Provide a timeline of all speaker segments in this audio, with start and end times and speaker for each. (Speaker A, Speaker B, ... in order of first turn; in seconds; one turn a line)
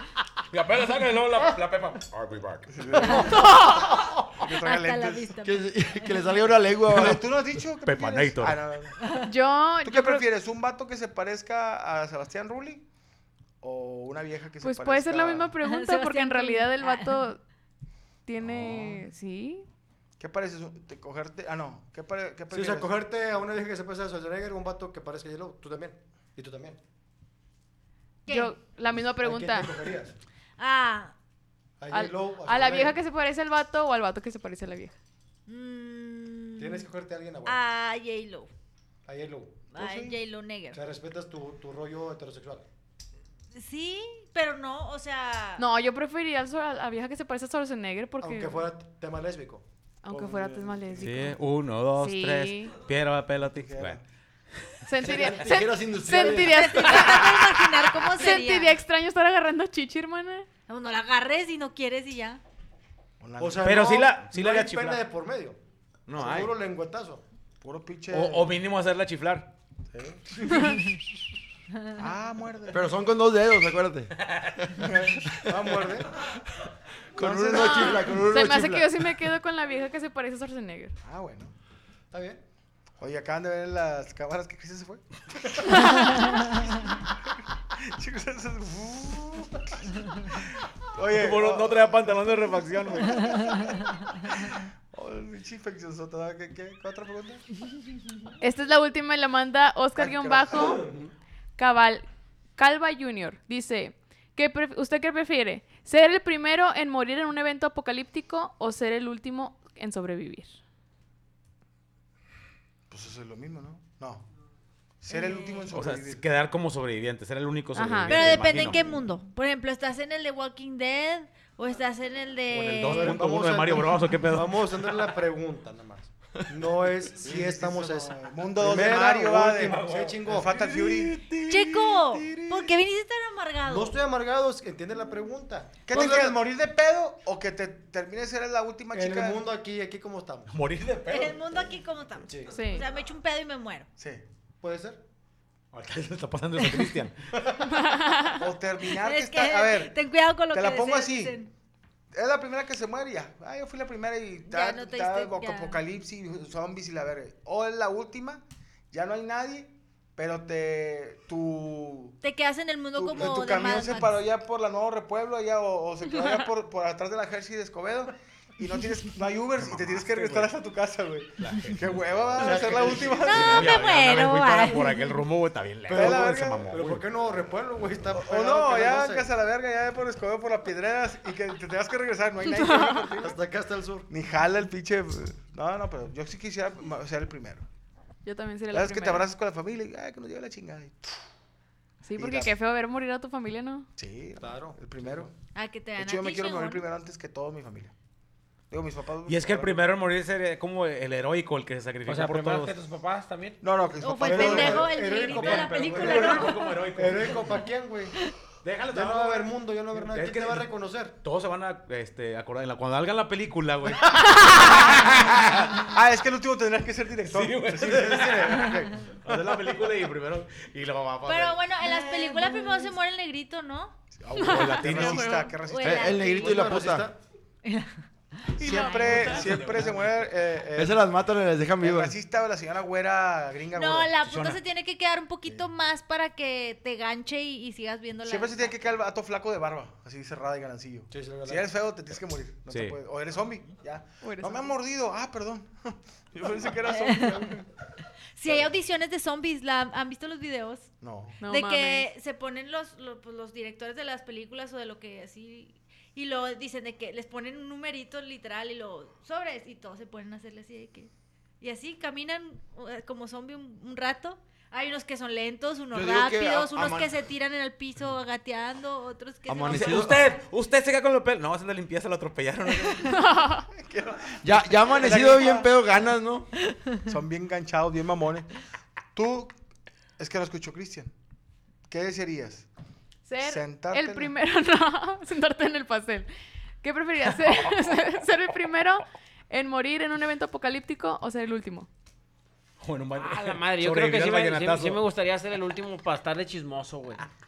Speaker A: 0.5-3.0
Speaker B: 2.7-5.3
Speaker C: 3.0-6.4
Speaker D: 3.3-3.9
Speaker E: 5.4-7.2
Speaker B: 6.8-9.0
Speaker A: 7.8-8.6
Speaker D: 9.2-10.2
Speaker B: 9.8-12.8
Speaker B: 13.6-15.5
Speaker D: 14.6-17.4
Speaker C: 15.6-17.2
Speaker D: 18.2-19.6
Speaker B: 18.4-19.1
Speaker B: 20.2-23.0
Speaker F: 22.5-26.8
Speaker C: 28.3-28.5
Speaker D: 28.3-29.8
Speaker F: 29.2-30.1
Speaker C: 30.6-31.1
Speaker F: 31.8-33.0
Speaker D: 31.9-35.0
Speaker C: 35.5-36.9
Speaker F: 36.6-37.6
Speaker C: 37.4-38.5
Speaker F: 39.0-39.6
Speaker C: 39.7-40.8
Speaker B: 39.8-40.1
Speaker F: 40.7-42.6
Speaker C: 43.5-45.6
Speaker D: 45.6-48.7
Speaker F: 48.2-49.6
Speaker D: 50.0-51.4
Speaker B: 50.1-51.3
Speaker A: 51.0-54.0
Speaker D: 52.0-52.8
Speaker B: 53.5-54.0
Speaker D: 54.9-60.5
Speaker E: 55.0-56.8
Speaker C: 56.2-58.8
Speaker C: 60.7-62.4
Speaker B: 63.2-63.9
Speaker F: 63.4-65.6
Speaker A: 63.6-65.0
Speaker A: 66.1-66.5
Speaker F: 66.1-67.2
Speaker B: 67.6-68.6
Speaker A: 68.1-69.5
Speaker B: 69.9-70.4
Speaker B: 72.0-72.9
Speaker E: 72.7-74.2
Speaker A: 74.2-74.5
Speaker B: 74.8-75.2
Speaker F: 75.4-76.1
Speaker B: 77.2-78.2
Speaker E: 77.2-78.9
Speaker D: 77.6-80.9
Speaker B: 81.0-81.5
Speaker F: 82.1-82.4
Speaker B: 83.0-86.8
Speaker B: 87.8-93.7
Speaker A: 91.1-93.5
Speaker B: 94.5-97.4
Speaker D: 98.4-100.9
Speaker B: 100.0-100.9
Speaker D: 101.6-102.0
Speaker D: 102.6-110.6
Speaker B: 112.9-114.2
Speaker B: 115.0-116.2
Speaker C: 115.1-115.7
Speaker A: 115.7-118.9
Speaker D: 117.7-118.3
Speaker C: 118.1-123.2
Speaker A: 122.5-124.8
Speaker F: 122.8-130.5
Speaker B: 127.2-131.3
Speaker A: 129.5-131.4
Speaker C: 131.5-133.9
Speaker F: 133.7-136.5
Speaker B: 135.9-139.4
Speaker F: 138.9-140.5
Speaker A: 140.5-141.6
Speaker C: 141.1-143.9
Speaker F: 142.3-142.5
Speaker D: 142.5-142.9
Speaker B: 144.0-144.2
Speaker F: 144.6-145.0
Speaker A: 145.7-147.1
Speaker D: 147.7-148.3
Speaker B: 148.4-149.9
Speaker C: 148.9-151.5
Speaker B: 150.5-151.4
Speaker B: 152.1-162.2
Speaker C: 154.5-155.8
Speaker C: 162.2-164.2
Speaker B: 162.9-173.8
Speaker A: 169.6-170.5
Speaker A: 171.4-172.6
Speaker F: 172.4-173.4
Speaker C: 173.0-175.2
Speaker A: 173.3-177.0
Speaker F: 175.9-179.3
Speaker B: 175.9-176.8
Speaker B: 178.1-183.4
Speaker D: 182.4-183.1
Speaker F: 183.2-184.1
Speaker B: 184.1-187.6
Speaker D: 188.2-189.3
Speaker B: 188.7-191.2
Speaker D: 192.0-193.9
Speaker B: 192.2-192.5
Speaker B: 194.0-195.3
Speaker F: 194.4-195.3
Speaker C: 195.5-196.8
Speaker B: 195.9-197.9
Speaker B: 198.7-199.9
Speaker A: 199.2-202.8
Speaker G: 202.0-203.6
Speaker B: 203.6-205.1
Speaker C: 204.0-206.7
Speaker F: 204.2-208.2
Speaker A: 205.2-207.6
Speaker A: 208.6-210.7
Speaker F: 208.9-211.2
Speaker A: 211.2-215.0
Speaker B: 214.5-214.8
Speaker B: 215.8-219.8
Speaker A: 217.3-221.7
Speaker F: 217.8-218.9
Speaker C: 221.2-224.0
Speaker B: 224.2-226.7
Speaker D: 224.3-225.6
Speaker A: 224.4-225.3
Speaker C: 225.7-226.8
Speaker E: 225.8-227.1
Speaker F: 226.1-227.2
Speaker C: 227.6-228.0
Speaker C: 228.6-229.3
Speaker B: 228.6-230.9
Speaker D: 228.6-229.4
Speaker A: 228.9-230.3
Speaker F: 229.6-230.9
Speaker E: 230.7-232.1
Speaker B: 231.8-234.2
Speaker C: 233.7-238.9
Speaker A: 234.2-234.6
Speaker B: 238.2-247.7
Speaker F: 241.1-241.7
Speaker A: 242.7-242.9
Speaker D: 244.2-244.7
Speaker C: 246.9-247.3
Speaker C: 248.3-250.9
Speaker B: 251.0-251.4
Speaker D: 251.4-252.1
Speaker C: 251.4-270.4
Speaker E: 265.9-267.1
Speaker E: 269.5-270.3
Speaker A: 269.6-273.1
Speaker D: 273.0-273.7
Speaker B: 273.7-275.7
Speaker E: 274.4-276.5
Speaker B: 277.1-278.5
Speaker B: 279.1-279.5
Speaker B: 280.2-281.1
Speaker B: 281.9-282.7
Speaker D: 283.2-286.3
Speaker B: 283.4-284.3
Speaker D: 286.8-291.9
Speaker A: 292.8-295.0
Speaker G: 293.1-297.2